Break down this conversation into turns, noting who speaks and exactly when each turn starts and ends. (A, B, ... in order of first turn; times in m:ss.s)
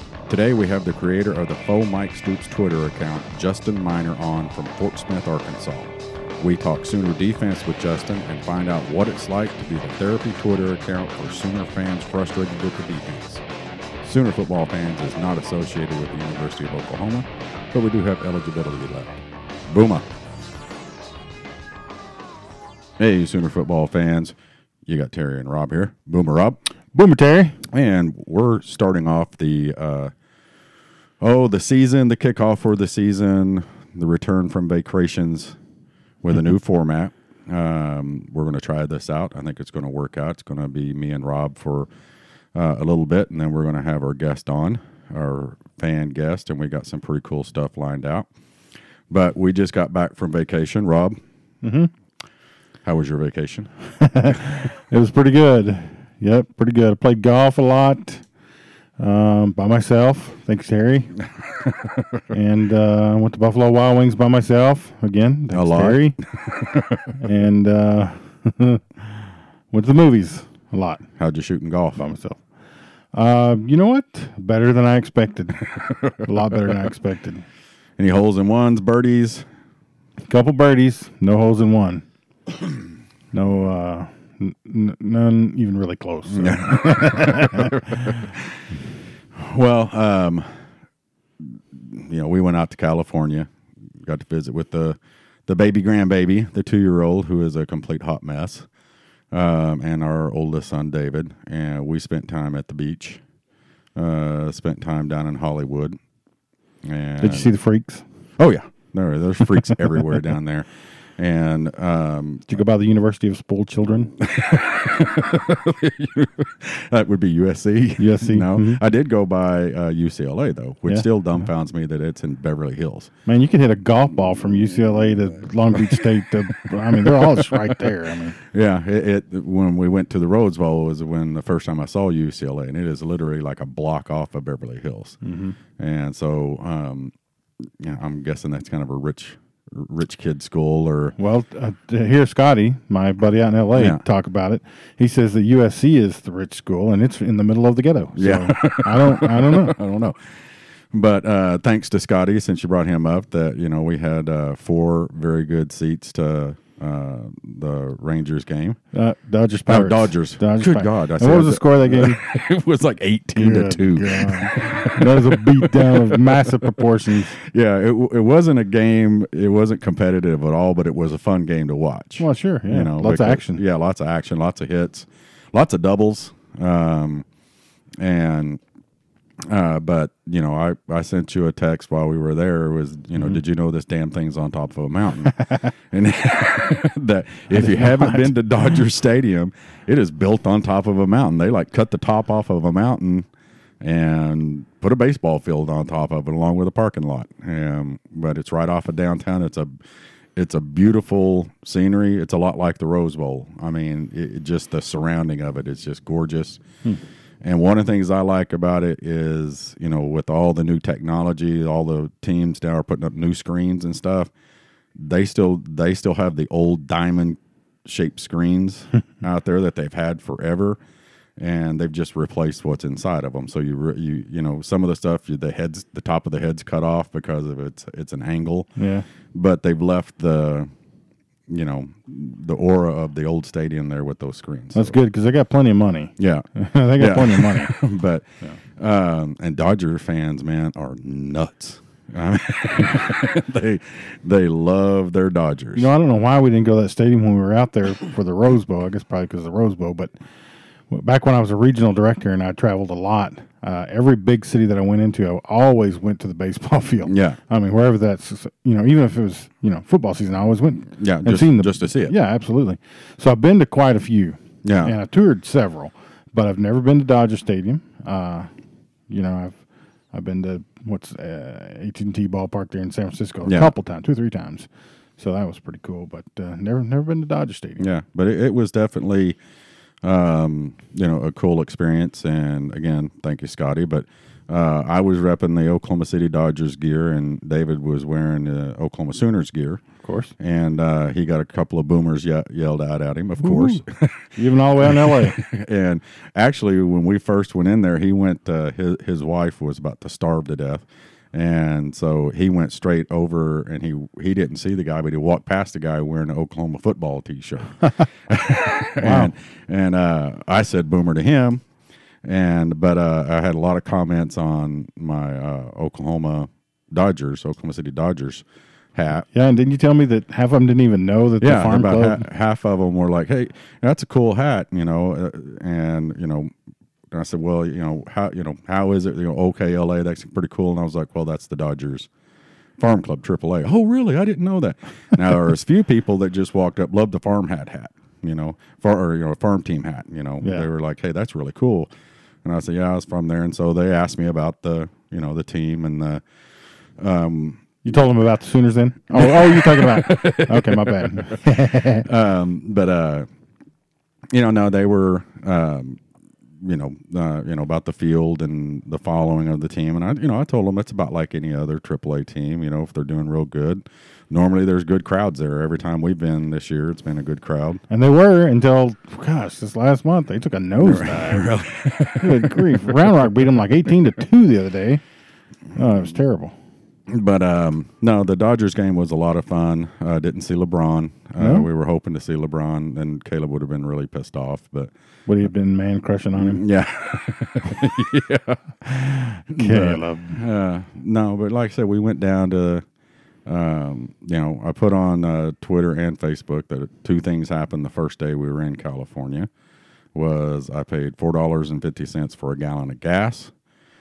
0:00.3-0:13.5 A
0:14.0-0:20.1 A
0:23.0-0:24.4 A
0:24.9-0:26.6 A
0:26.9-0:27.6 B
0:27.7-0:30.1 A
0:31.2-0:35.6 A
0:36.2-0:41.9 A
0:42.5-0:48.3 A
0:49.1-0:51.2 A
0:51.6-0:51.9 B
0:52.8-0:53.7 A
0:54.0-0:58.3 B
0:59.0-1:01.2 B
1:02.3-1:06.2 B
1:05.5-1:07.1 A
1:07.2-1:08.8 B
1:09.7-1:11.1 B
1:11.2-1:12.0 A
1:12.0-1:12.5 B
1:13.1-1:17.4 B
1:18.0-1:19.5 A
1:20.3-1:22.1 B
1:23.3-1:28.2 B
1:26.3-1:28.7 A
1:29.4-1:30.6 A
1:31.4-1:38.7 A
1:39.3-1:43.2 A
1:44.0-1:46.0 A
1:46.8-1:47.5 A
1:47.2-1:48.1 B
1:48.4-1:52.5 A
1:52.5-1:54.1 B
1:54.2-2:03.1 A
1:58.0-1:58.8 B
2:03.3-2:08.4 B
2:05.8-2:06.1 A
2:06.9-2:07.8 A
2:08.5-2:15.2 A
2:15.2-2:15.6 B
2:15.8-2:17.1 A
2:17.8-2:21.2 A
2:21.2-2:29.8 B
2:23.7-2:24.0 A
2:28.2-2:38.8 A
2:38.9-2:42.2 B
2:39.7-2:46.4 A
2:43.4-2:47.4 B
2:47.4-2:57.3 A
2:52.2-2:53.6 B
2:58.0-2:58.6 A
2:59.5-3:13.3 A
3:07.5-3:08.3 B
3:13.8-3:19.7 A
3:20.4-3:26.6 A
3:27.4-3:34.3 A
3:35.0-3:40.8 A
3:41.4-3:48.7 A
3:48.8-3:49.1 B
3:49.3-3:50.7 A
3:51.5-3:55.0 A
3:54.8-3:57.8 B
3:56.2-4:05.9 A
4:05.8-4:10.1 B
4:10.9-4:28.5 B
4:17.1-4:17.4 A
4:21.0-4:22.1 A
4:24.6-4:24.9 A
4:29.1-4:37.9 B
4:33.4-4:33.7 A
4:37.8-4:39.4 A
4:40.0-4:49.8 A
4:50.0-4:50.3 B
4:50.4-5:11.6 A
4:53.4-4:53.8 B
4:54.3-4:55.4 B
5:09.0-5:09.3 B
5:12.2-5:19.3 A
5:19.3-5:22.2 B
5:21.4-5:26.5 A
5:27.1-5:32.1 A
5:32.8-5:41.9 A
5:40.4-5:40.7 B
5:42.4-5:46.2 A
5:47.0-5:47.8 A
5:47.8-5:52.1 B
5:49.1-5:53.3 A
5:54.3-5:56.0 A
5:56.6-6:07.8 A
6:07.9-6:11.5 B
6:10.8-6:13.5 A
6:12.2-6:15.0 B
6:15.7-6:16.6 B
6:17.1-6:24.9 A
6:21.4-6:21.7 B
6:25.3-6:26.6 B
6:26.4-6:32.8 A
6:29.5-6:30.4 B
6:33.5-6:39.5 A
6:40.1-6:43.5 A